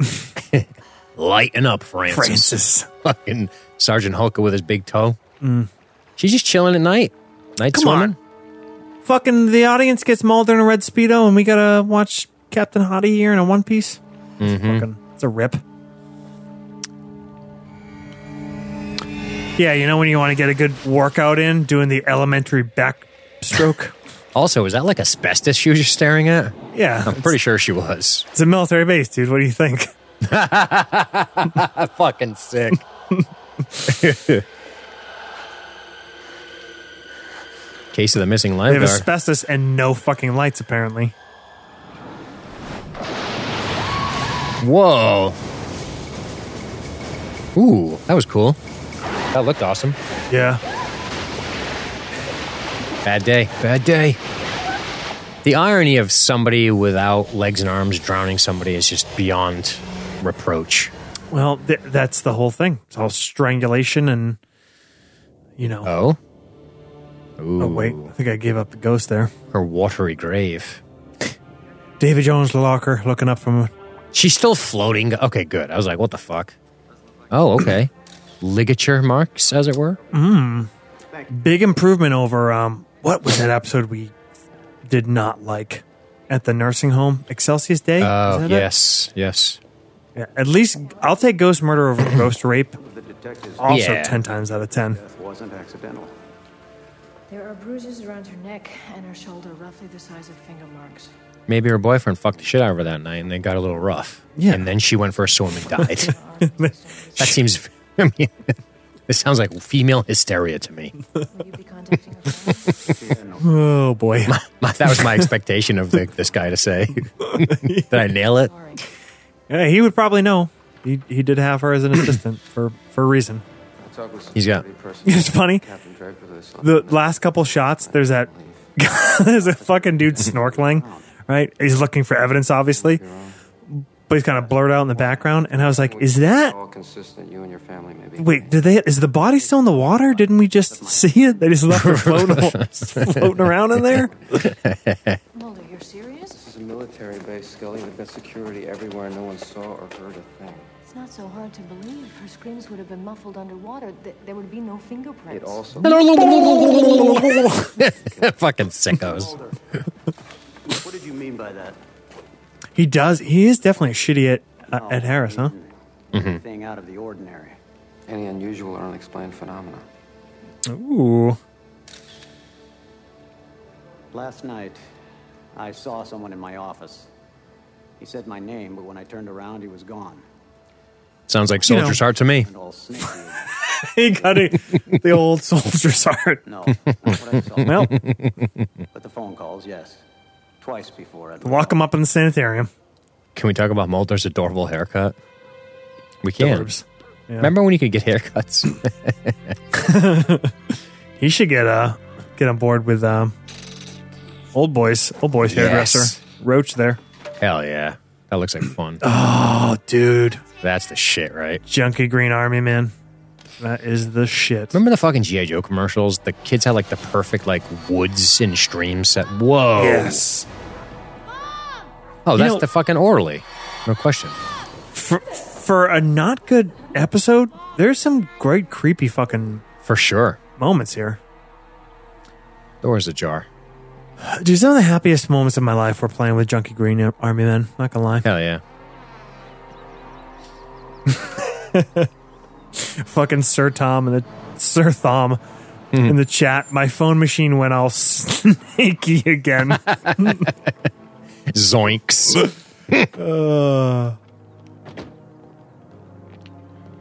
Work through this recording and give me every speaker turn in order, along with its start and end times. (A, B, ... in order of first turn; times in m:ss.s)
0:00.3-0:05.2 A
0:02.1-0:02.9 B
0:05.4-0:05.7 B
0:06.2-0:08.2 A
0:07.7-0:08.1 B
0:09.0-0:15.6 B
0:14.4-0:14.8 A
0:19.6-0:23.9 B
0:24.3-0:28.3 A
0:26.7-0:27.4 B
0:28.3-0:29.9 B
0:30.2-0:32.8 A
0:33.8-0:34.4 A
0:37.9-0:39.1 A
0:38.7-0:41.1 B
0:44.6-0:45.4 A
0:47.5-0:48.6 A
0:49.3-0:50.0 A
0:50.3-0:50.6 B
0:53.0-0:54.2 A
0:55.4-1:00.9 A
1:01.3-1:04.4 B
1:05.6-1:05.9 B
1:05.8-1:06.2 A
1:07.4-1:08.1 A
1:07.6-1:09.3 B
1:09.5-1:10.8 A
1:12.0-1:13.7 B
1:14.1-1:16.6 A
1:17.3-1:20.0 A
1:20.1-1:20.7 B
1:21.1-1:21.5 C
1:21.3-1:24.1 B
1:24.8-1:28.7 B
1:28.0-1:29.6 A
1:30.2-1:32.8 B
1:32.8-1:36.2 C
1:33.6-1:35.0 B
1:33.6-1:34.2 A
1:37.3-1:41.1 D
1:41.5-1:46.1 A
1:44.4-1:44.6 B
1:45.9-1:47.4 D
1:46.4-1:46.7 B
1:47.2-1:48.5 A
1:49.1-1:50.9 A
1:51.3-1:52.9 D
1:52.8-1:53.7 C
1:53.4-1:55.3 B
1:54.2-1:58.5 A
1:57.2-1:57.9 B
1:58.4-1:58.8 D
1:59.5-2:03.4 B
2:03.8-2:08.7 E
2:04.3-2:04.6 A
2:05.0-2:05.6 B
2:06.6-2:13.0 B
2:09.2-2:11.1 C
2:12.7-2:13.4 E
2:13.7-2:16.5 B
2:14.9-2:18.6 E
2:18.2-2:24.5 B
2:19.3-2:21.6 C
2:21.7-2:23.4 A
2:24.3-2:25.2 A
2:25.3-2:26.4 D
2:26.3-2:30.7 E
2:30.9-2:35.6 D
2:35.3-2:36.0 E
2:35.8-2:39.3 A
2:39.0-2:39.6 C
2:40.6-2:41.8 C
2:42.8-2:45.5 B
2:44.7-2:47.6 C
2:46.1-2:46.4 A
2:48.1-2:49.8 E
2:50.6-2:51.4 B
2:54.1-2:54.8 C
2:55.5-2:57.1 C
2:58.0-3:00.2 C
3:01.3-3:02.5 A
3:01.6-3:02.0 B
3:01.8-3:03.7 C
3:03.6-3:06.4 B
3:06.4-3:08.0 C
3:07.6-3:08.0 B
3:07.8-3:08.5 A
3:08.9-3:10.0 C
3:10.6-3:11.8 C
3:11.4-3:12.7 B
3:13.3-3:15.2 A
3:16.2-3:16.7 A
3:16.4-3:17.5 B
3:17.4-3:19.5 A
3:19.7-3:23.3 B
3:24.5-3:27.0 B
3:25.4-3:26.2 A
3:27.4-3:29.0 A
3:29.0-3:30.4 B
3:30.6-3:31.6 A
3:31.6-3:32.9 B
3:33.6-3:34.8 B
3:34.7-3:40.2 A
3:39.8-3:40.5 B
3:42.2-3:44.4 A
3:42.3-3:42.6 B
3:44.9-3:49.6 B
3:49.8-3:50.4 A
3:50.6-3:51.2 B
3:52.8-3:53.5 A
3:54.2-3:58.3 B
3:58.2-3:58.6 A
4:01.1-4:02.1 B
4:02.7-4:05.4 B
4:05.9-4:06.2 A
4:06.0-4:10.5 B
4:10.0-4:10.7 A
4:11.5-4:13.1 A
4:13.2-4:14.2 B